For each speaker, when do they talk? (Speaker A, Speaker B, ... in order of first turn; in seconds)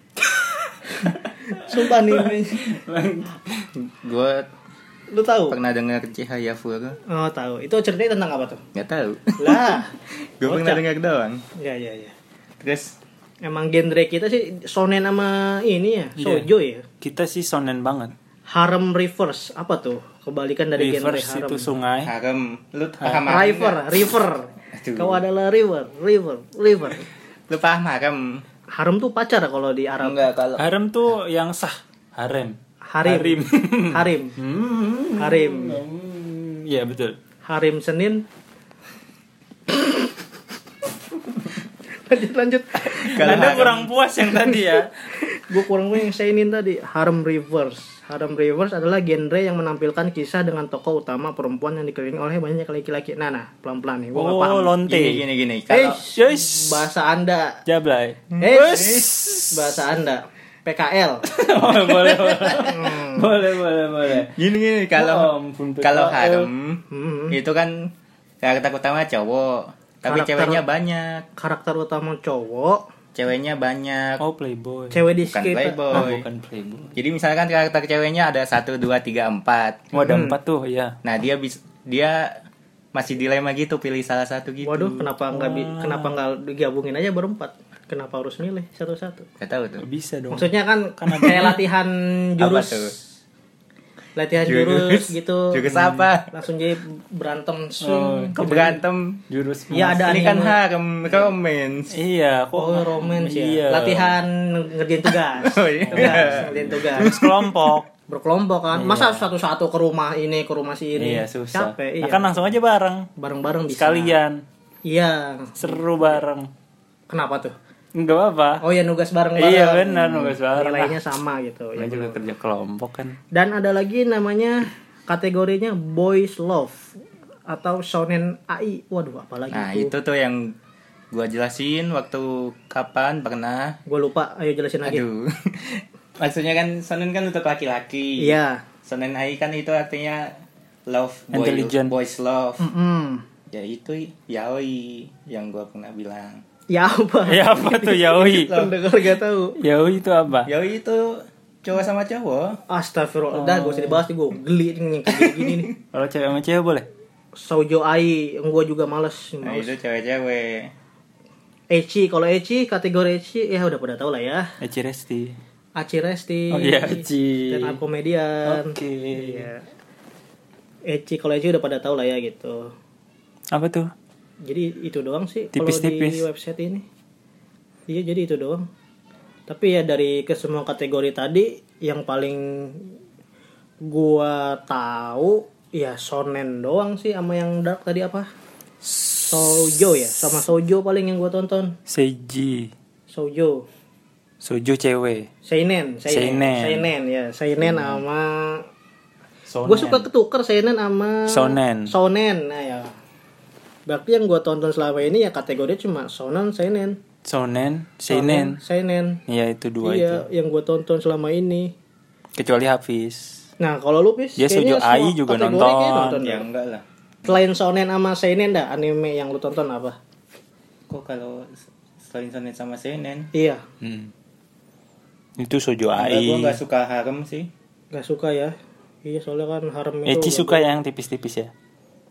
Speaker A: 0.3-3.7, 16.2-16.5, 17.0-18.1, 20.8-22.1, 23.0-23.3, 30.6-37.2, 42.8-44.9, 54.1-55.2, 56.0-56.8, 57.7-59.8, 61.3-64.3, 65.0-66.5, 74.2-75.0, 75.9-77.0, 79.9-81.0, 85.3-86.1, 89.8-91.6, 97.8-100.2, 101.9-104.2, 105.8-107.9, 108.7-109.3, 111.0-113.1, 113.7-114.4, 115.6-116.5, 118.0-118.6, 119.4-121.0, 121.8-123.2, 141.3-141.9, 147.3-148.6, 149.6-150.5, 153.3-154.0, 155.9-156.9, 164.6-165.4, 166.5-167.8, 168.4-169.5, 173.5-173.9, 175.5-176.2, 188.8-190.4, 191.9-192.7, 194.4-195.3, 196.1-196.9, 197.7-198.0, 199.5-200.1, 201.3-201.9, 207.2-208.6, 209.3-210.2, 212.4-213.4, 214.4-216.2, 223.8-224.1, 225.4-226.6, 230.1-231.5
Speaker B: 1.0-2.6, 5.1-5.6, 7.1-8.6, 9.4-9.9, 10.4-10.8, 11.6-12.1, 13.4-16.8, 18.5-21.7, 23.2-27.1, 28.7-30.2, 32.9-33.4, 33.9-34.4, 35.2-35.8, 37.5-38.2, 39.7-40.1, 42.1-43.8, 44.3-54.8, 55.7-57.6, 58.4-61.2, 62.6-63.3, 66.9-67.4, 70.0-70.6, 71.4-72.8, 74.9-76.1, 80.0-80.4, 84.6-89.3, 90.3-93.0, 94.2-95.7, 96.3-98.3, 99.7-100.6, 102.6-107.2, 108.1-112.4, 113.2-114.2, 114.8-116.2, 117.1-117.5, 118.6-122.2, 123.3-126.9, 127.5-129.9, 133.9-135.0, 138.2-138.7, 142.6-143.2, 146.7-149.6, 152.7-155.7, 157.4-159.7, 161.7-164.5, 165.8-169.6, 170.9-172.7, 174.4-176.8, 177.9-178.7, 179.5-182.9, 183.8-188.3, 189.3-191.8, 193.1-193.7, 195.4-198.7, 199.7-202.9, 203.9-207.0, 208.1-209.2, 209.8-211.7, 213.6-216.4, 217.3-220.0, 223.3-223.6, 227.9-228.5, 229.1-230.7
Speaker C: 3.8-4.5, 5.5-7.0, 8.7-9.8, 10.4-11.4, 12.6-13.0, 22.1-23.9, 24.7-25.2, 27.5-28.4, 30.0-30.6, 43.0-43.9, 54.9-56.0, 64.3-67.9, 68.4-71.3, 73.2-74.2, 75.3-76.2, 77.0-79.8, 81.0-82.4, 83.0-85.1, 89.4-89.8, 92.4-92.9, 94.4-96.3, 98.4-99.2, 100.0-101.9, 105.3-107.5, 129.5-130.5, 131.1-133.8, 134.8-140.3, 140.9-142.7, 143.5-146.4, 150.5-152.6, 155.1-155.7, 159.4-160.7, 216.1-216.8, 220.9-223.3, 226.0-227.5